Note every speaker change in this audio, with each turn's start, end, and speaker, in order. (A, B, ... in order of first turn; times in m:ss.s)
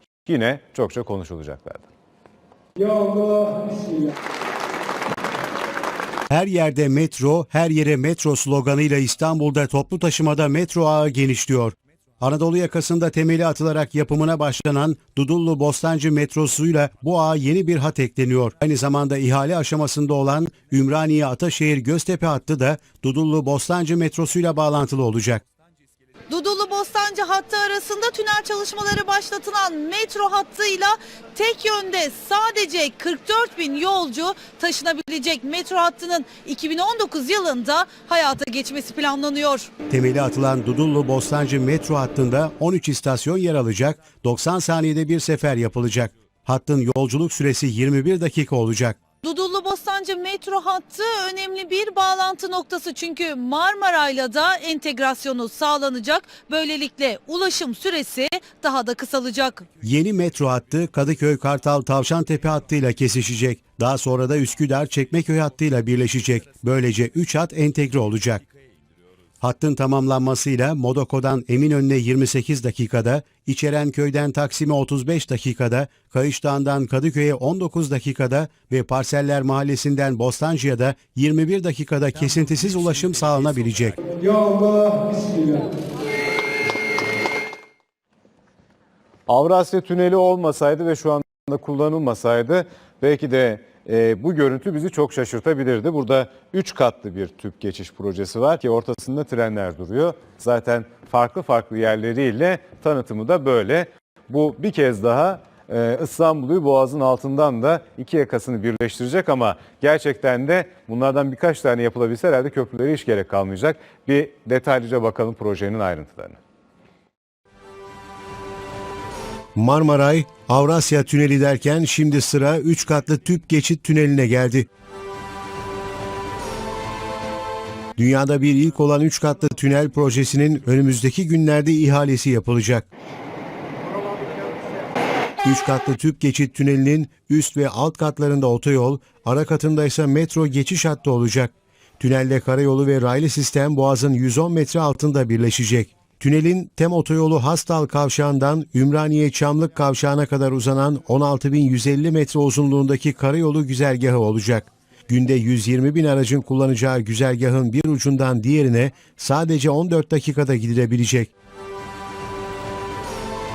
0:00.2-0:01.9 A
0:02.8-0:04.0 B
0:06.3-0:25.4 C
0:26.3-0:39.7 D
0:39.9-0:49.0 C
0:49.2-0:59.6 D
0:59.8-1:08.4 C
1:09.4-1:24.0 C
1:24.2-1:25.6 B
1:29.3-1:56.4 A
1:59.5-2:04.7 C
2:08.0-2:12.8 C
2:15.4-2:41.3 C